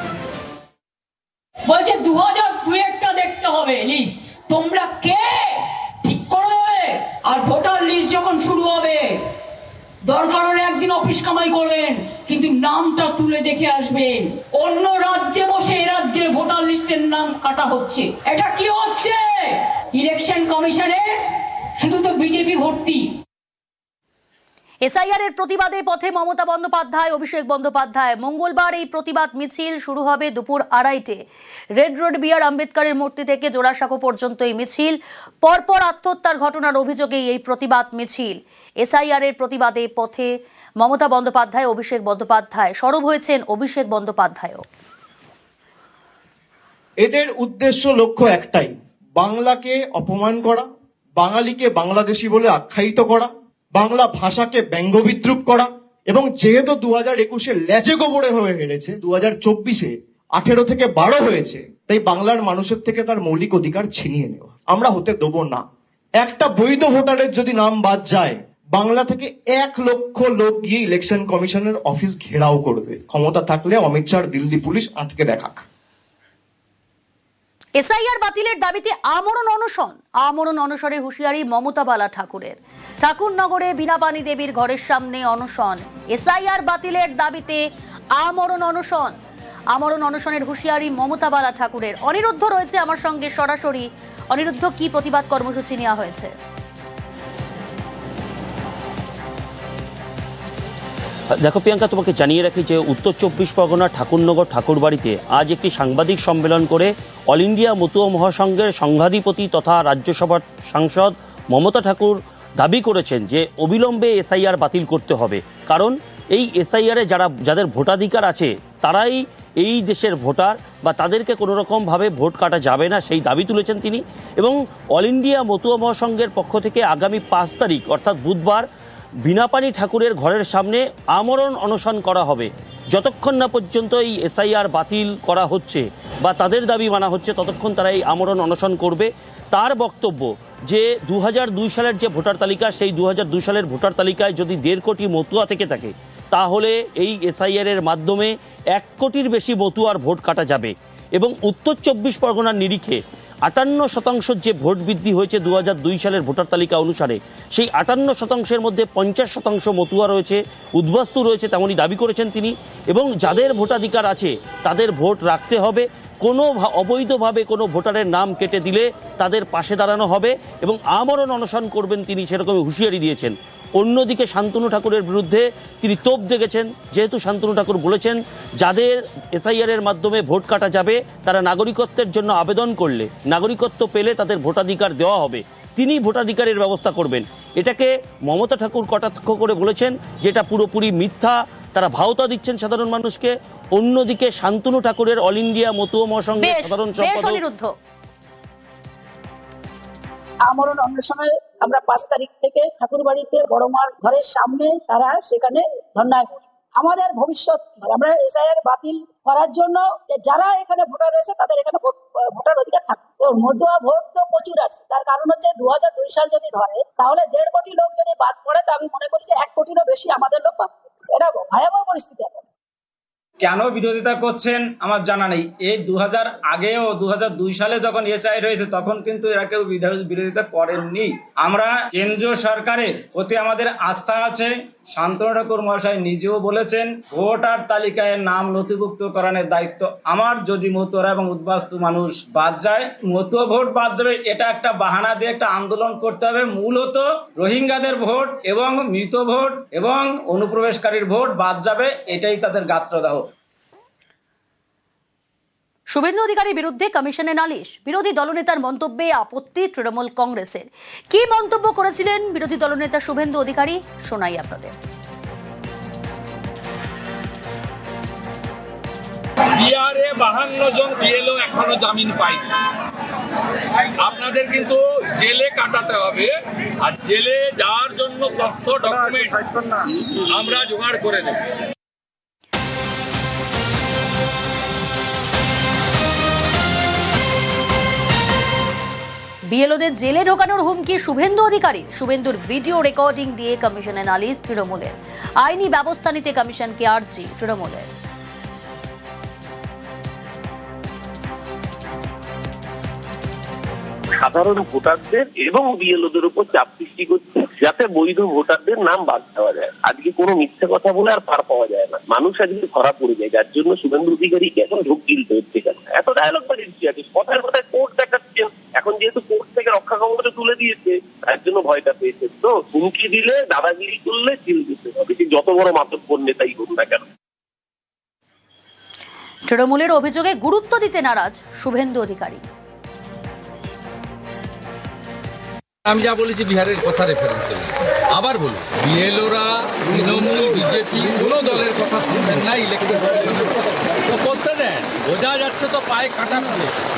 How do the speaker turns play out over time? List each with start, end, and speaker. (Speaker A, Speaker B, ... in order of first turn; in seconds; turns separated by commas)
Speaker A: 1.7-9.2, Speaker A: 10.1-21.1, Speaker A: 21.8-23.1, Speaker B: 24.8-31.2, Speaker B: 31.8-40.3, Speaker B: 40.8-44.6, Speaker C: 47.0-50.7, Speaker C: 51.2-65.6, Speaker C: 66.2-75.6, Speaker B: 77.8-87.6, Speaker B: 88.2-89.2, Speaker B: 89.7-96.3, Speaker D: 101.4-128.6, Speaker D: 129.2-197.4, Speaker B: 196.4-197.7, Speaker E: 200.5-222.4, Speaker F: 223.4-253.2, Speaker B: 255.9-264.8, Speaker G: 269.6-272.4, Speaker G: 274.0-279.4, Speaker G: 280.3-281.4, Speaker B: 289.5-297.9, Speaker H: 304.2-327.0, Speaker B: 329.5-332.4, Speaker G: 335.9-343.5, Speaker G: 344.1-346.7